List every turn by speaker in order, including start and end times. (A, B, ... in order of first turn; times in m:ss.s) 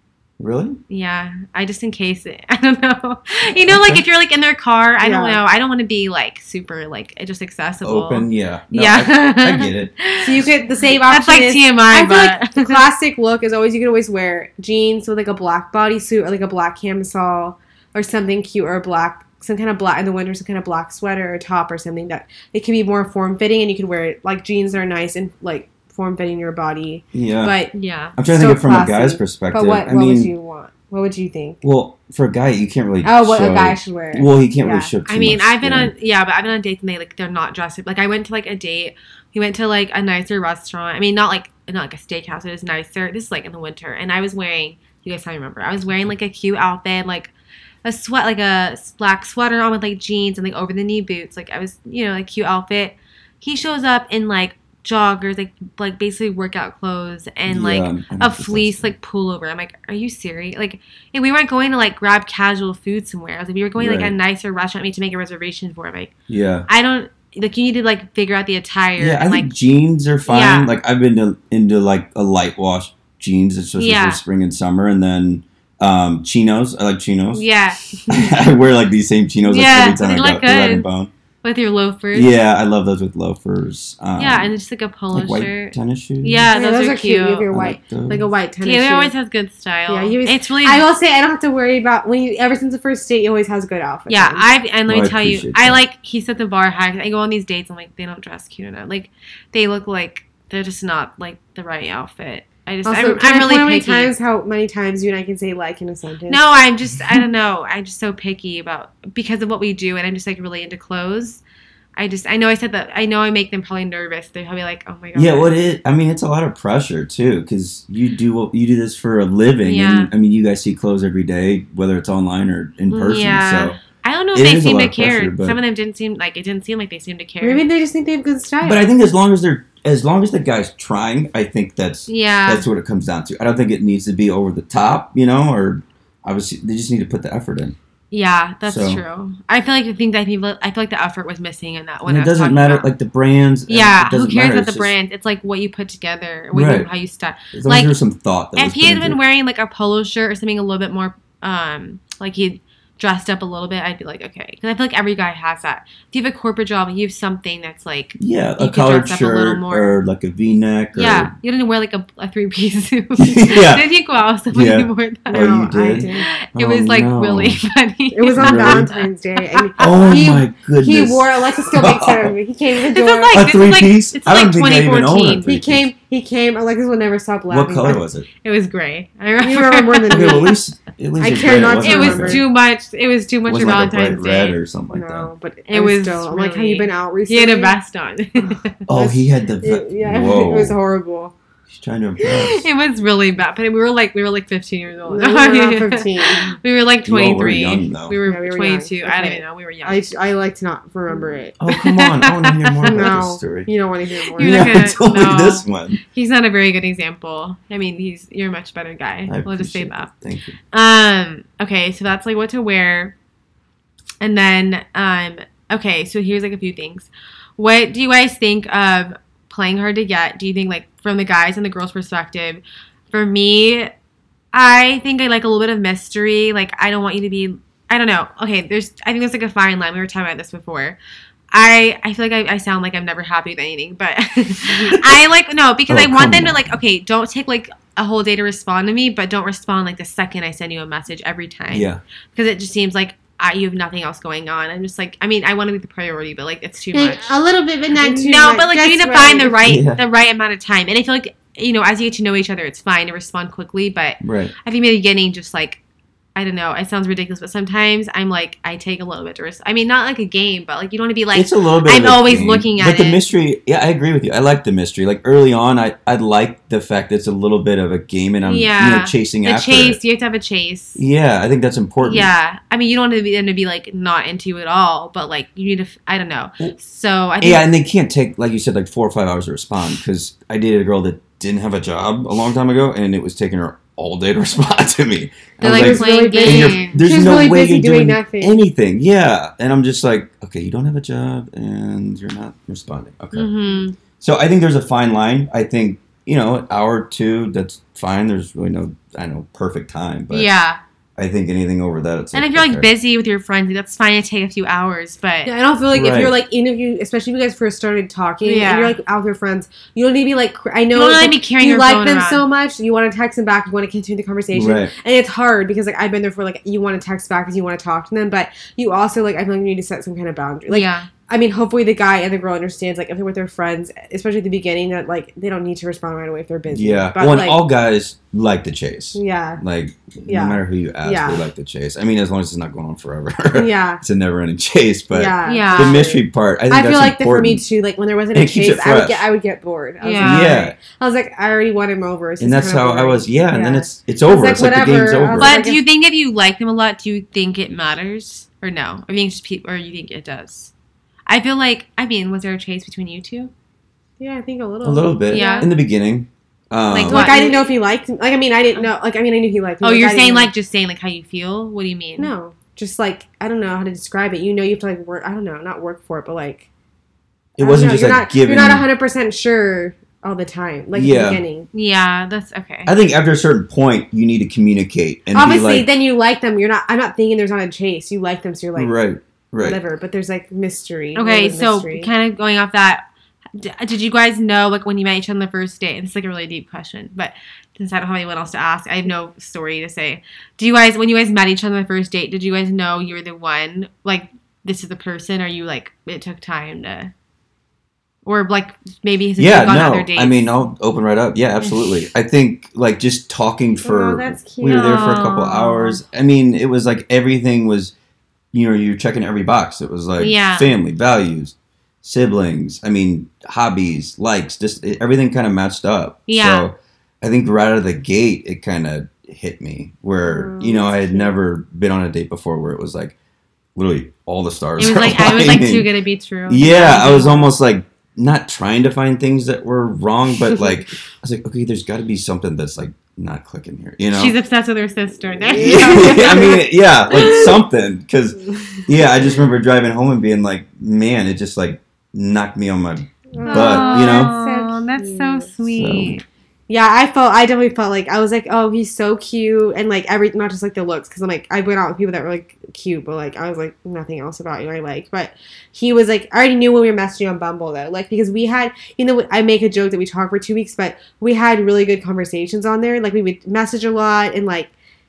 0:00.4-0:00.8 A
0:00.9-0:10.4 B
0:03.6-0:04.0 A
0:05.0-0:05.4 C
0:07.8-0:09.9 A
0:10.2-0:27.7 C
0:11.1-0:12.9 B
0:27.1-0:27.6 A
0:27.7-0:28.2 B
0:28.2-0:30.3 A
0:28.3-0:31.6 C
0:31.6-0:35.9 A
0:33.0-0:34.9 C
0:35.1-0:47.3 B
0:47.8-1:06.1 B
0:57.5-0:59.0 A
1:03.8-1:04.1 A
1:06.3-1:06.7 A
1:06.7-1:09.5 B
1:09.0-1:17.5 A
1:10.3-1:10.7 B
1:13.8-1:14.2 B
1:17.3-1:18.1 B
1:18.1-1:21.1 A
1:19.5-1:20.9 B
1:21.4-1:22.3 B
1:22.1-1:24.5 A
1:24.2-1:27.5 B
1:25.1-1:26.5 A
1:26.5-1:29.1 C
1:27.5-1:28.3 A
1:28.6-1:30.8 B
1:29.9-1:34.5 C
1:34.1-1:44.1 B
1:34.9-1:35.8 A
1:42.8-1:46.4 C
1:46.3-1:51.4 B
1:52.0-1:55.5 B
1:55.2-2:03.8 A
1:59.6-2:00.1 B
2:02.9-2:07.6 B
2:04.3-2:05.6 A
2:07.4-2:08.9 C
2:08.6-2:17.8 A
2:12.1-2:12.7 B
2:18.1-2:22.9 B
2:18.6-2:19.0 A
2:22.0-2:24.9 A
2:23.7-2:27.9 B
2:26.5-2:26.9 A
2:27.5-2:29.2 A
2:28.6-2:40.0 B
2:38.2-2:41.3 A
2:40.9-2:50.4 B
2:43.2-2:43.9 A
2:44.5-2:47.6 A
2:45.3-2:46.3 C
2:48.1-2:53.4 C
2:48.4-2:48.9 A
2:49.8-2:52.3 A
2:52.9-2:55.5 B
2:53.3-2:55.9 A
2:55.4-2:58.0 C
2:57.5-2:58.3 A
2:58.4-3:00.6 B
2:59.4-3:00.6 C
3:00.1-3:02.4 A
3:01.2-3:02.4 C
3:01.8-3:04.6 B
3:03.5-3:05.3 A
3:04.9-3:07.7 C
3:05.7-3:08.7 B
3:08.4-3:11.3 C
3:08.9-3:10.8 A
3:11.7-3:12.6 A
3:12.4-3:20.0 B
3:15.1-3:16.6 C
3:17.0-3:18.2 A
3:18.3-3:21.5 C
3:21.2-3:23.1 B
3:21.6-3:23.7 A
3:22.9-3:24.8 C
3:24.4-3:30.1 B
3:24.4-3:26.0 A
3:29.3-3:30.6 A
3:30.7-3:33.2 B
3:34.2-3:43.9 B
3:44.5-3:51.0 B
3:51.5-4:07.4 B
3:55.9-3:56.8 A
4:01.7-4:02.0 A
4:06.9-4:09.6 C
4:07.9-4:15.8 B
4:09.6-4:10.0 A
4:14.2-4:14.5 A
4:16.4-4:23.2 B
4:21.3-4:30.0 A
4:28.4-4:31.0 B
4:31.0-4:32.3 A
4:32.0-4:37.6 B
4:37.4-4:53.5 A
4:45.6-4:47.0 B
4:45.7-4:48.6 C
4:53.3-4:54.0 B
4:54.2-5:00.6 A
5:00.3-5:00.8 B
5:01.2-5:02.9 A
5:02.3-5:05.5 B
5:05.4-5:27.6 C
5:05.9-5:06.3 A
5:08.4-5:09.0 B
5:10.9-5:12.4 B
5:14.5-5:14.9 A
5:20.7-5:21.1 B
5:26.7-5:37.6 A
5:29.2-5:29.6 C
5:30.3-5:31.5 C
5:33.6-5:34.0 C
5:35.1-5:45.8 C
5:35.5-5:36.0 B
5:38.3-5:39.2 A
5:40.0-5:40.5 B
5:40.2-5:40.8 A
5:42.4-5:45.6 A
5:45.4-5:50.7 B
5:51.3-5:53.5 B
5:54.2-5:55.7 C
5:54.8-5:57.4 A
5:55.3-5:55.7 B
5:56.9-5:57.7 B
5:57.1-6:00.5 C
5:59.8-6:02.3 B
6:02.2-6:06.7 C
6:07.6-6:08.9 A
6:07.6-6:11.7 C
6:10.9-6:11.4 A
6:11.7-6:12.9 B
6:12.9-6:15.9 A
6:15.3-6:18.9 C
6:18.8-6:19.8 A
6:19.6-6:22.1 C
6:21.2-6:23.0 B
6:23.6-6:37.1 B
6:38.3-6:40.5 B
6:39.4-6:47.9 A
6:41.6-6:42.1 B
6:43.8-6:45.2 C
6:44.7-6:46.0 B
6:48.5-7:03.2 A
6:50.2-6:50.7 B
6:56.3-6:56.7 B
7:00.2-7:01.4 C
7:03.8-7:05.9 A
7:04.8-7:07.5 B
7:06.5-7:14.4 A
7:14.1-7:17.5 B
7:15.5-7:16.6 C
7:15.6-7:24.3 A
7:18.6-7:18.9 C
7:23.3-7:25.5 C
7:23.5-7:26.2 B
7:25.7-7:26.2 A
7:26.7-7:44.7 C